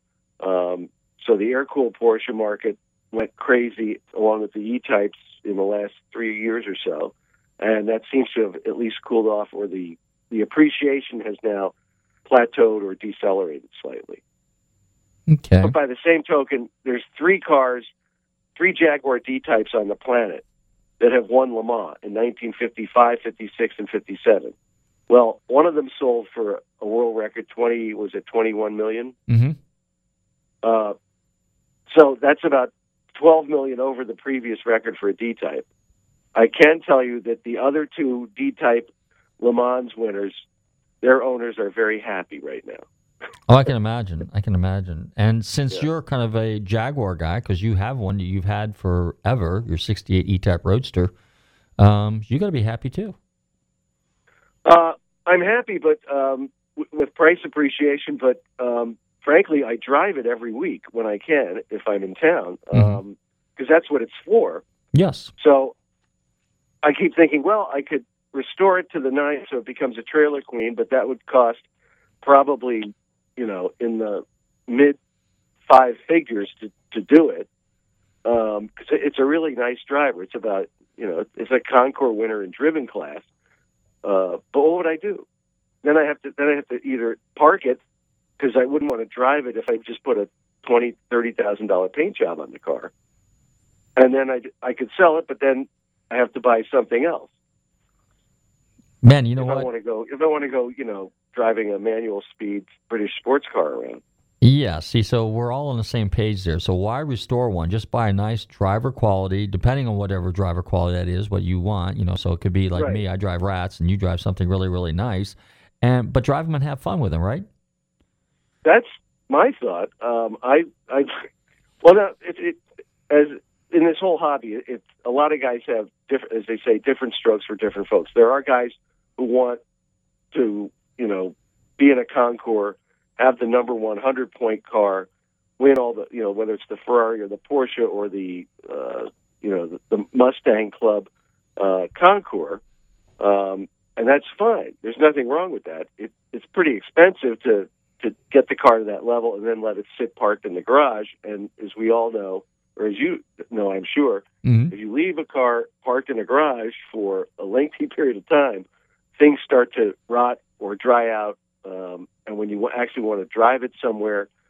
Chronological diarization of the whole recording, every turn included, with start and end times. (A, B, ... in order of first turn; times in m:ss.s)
0:00.4-0:11.7 A
0:12.3-0:14.2 A
0:15.3-0:15.7 B
0:15.6-0:17.9 A
0:18.6-0:20.4 A
0:21.0-0:24.5 A
0:25.1-0:29.1 A
0:29.3-0:29.6 B
0:30.6-0:31.0 A
0:31.9-0:35.6 A
0:36.3-0:40.4 A
0:41.0-0:42.8 A
0:43.5-0:51.1 B
0:51.8-0:53.2 B
0:54.6-1:04.6 A
1:02.7-1:03.0 B
1:04.9-1:05.3 B
1:05.4-1:05.7 A
1:06.8-1:11.6 A
1:12.2-1:15.0 A
1:15.7-1:17.5 A
1:18.2-1:23.2 A
1:24.0-1:25.2 A
1:25.8-1:27.8 A
1:28.4-1:32.9 A
1:34.0-1:37.3 A
1:39.0-1:39.7 B
1:39.4-1:44.0 A
1:44.4-1:57.5 B
1:52.8-1:53.0 A
1:58.6-2:01.1 A
2:01.8-2:09.6 A
2:10.3-2:15.1 A
2:15.6-2:22.6 A
2:23.2-2:38.6 A
2:34.4-2:34.7 B
2:39.2-2:44.3 A